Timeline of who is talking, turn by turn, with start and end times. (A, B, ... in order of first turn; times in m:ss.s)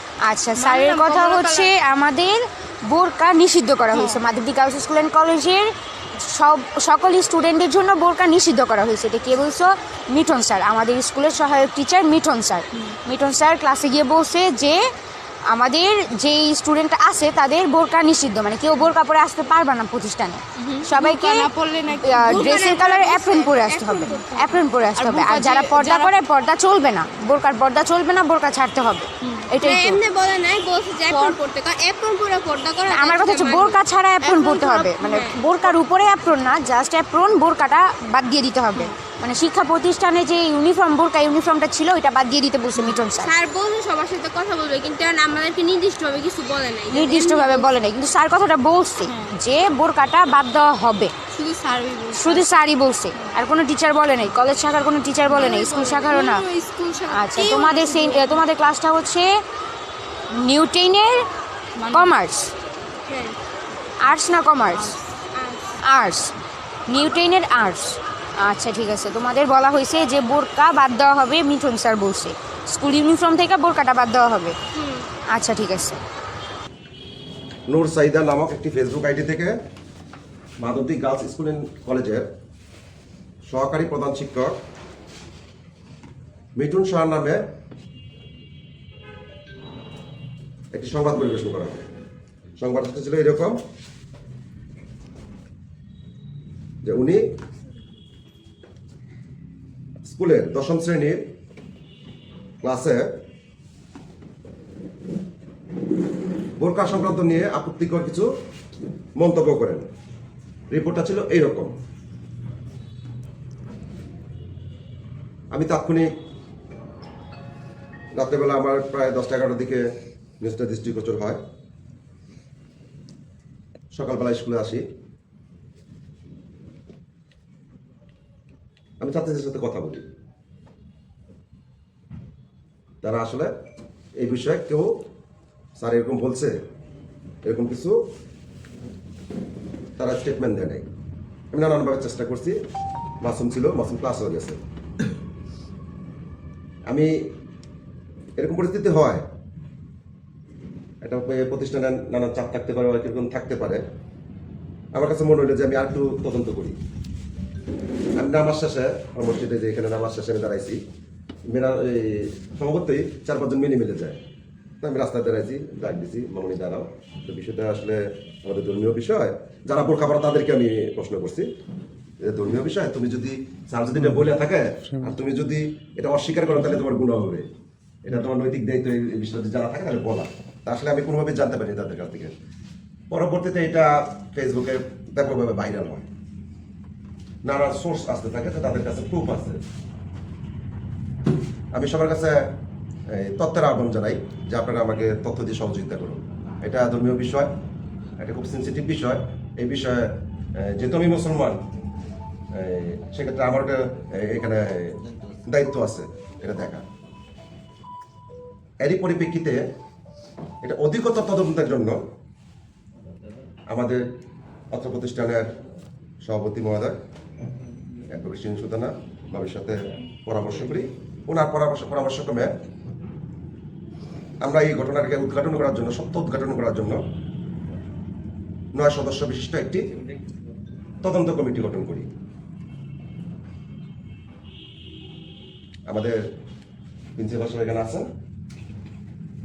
0:00.2-0:14.9 A
0:00.6-0:01.7 B
0:03.9-0:04.2 B
0:15.5-0:30.0 A
0:20.6-0:26.2 B
0:29.2-0:35.4 B
0:31.1-0:31.4 A
0:32.9-0:43.3 A
0:42.8-0:47.7 B
0:46.9-0:51.1 A
0:51.3-0:52.5 B
0:52.1-0:56.4 A
0:55.3-0:58.4 B
0:57.1-0:59.3 A
1:00.3-1:01.3 A
1:01.8-1:02.1 B
1:01.9-1:02.5 A
1:03.1-1:03.4 B
1:04.0-1:05.0 A
1:04.8-1:05.8 B
1:05.8-1:06.3 A
1:06.9-1:14.6 A
1:14.7-1:15.1 B
1:15.3-1:16.0 A
1:17.7-1:19.5 C
1:20.6-1:22.2 C
1:23.5-1:24.6 C
1:26.6-1:27.4 C
1:30.7-1:31.8 C
1:32.6-1:33.6 C
1:36.8-1:37.2 C
1:40.0-1:41.2 C
1:42.6-1:43.1 C
1:46.6-1:48.3 C
1:49.2-1:49.9 C
1:50.7-1:51.7 C
1:55.5-1:56.1 C
1:58.2-1:59.8 C
2:00.4-2:01.4 C
2:03.9-2:04.8 C
2:09.0-2:10.0 C
2:13.0-2:13.5 C
2:14.2-2:14.9 C
2:15.8-2:16.6 C
2:17.4-2:18.0 C
2:20.0-2:20.9 C
2:21.5-2:22.6 C
2:23.2-2:24.6 C
2:26.9-2:27.1 C
2:28.4-2:29.2 C
2:31.0-2:33.8 C
2:34.9-2:36.8 C
2:38.2-2:40.8 C
2:41.5-2:44.2 C
2:44.8-2:51.5 C
2:52.2-2:57.5 C
2:58.0-3:02.3 C
3:03.1-3:06.1 C
3:07.4-3:09.6 C
3:11.7-3:12.5 C
3:13.1-3:17.5 C
3:18.2-3:21.6 C
3:22.5-3:26.8 C
3:28.8-3:29.6 C
3:30.6-3:32.0 C
3:33.7-3:34.0 C
3:34.7-3:35.5 C
3:36.2-3:37.0 C
3:38.1-3:42.5 C
3:44.4-3:47.0 C
3:48.8-3:49.9 C
3:51.0-3:52.1 C
3:55.9-3:56.2 C
3:57.2-3:58.1 C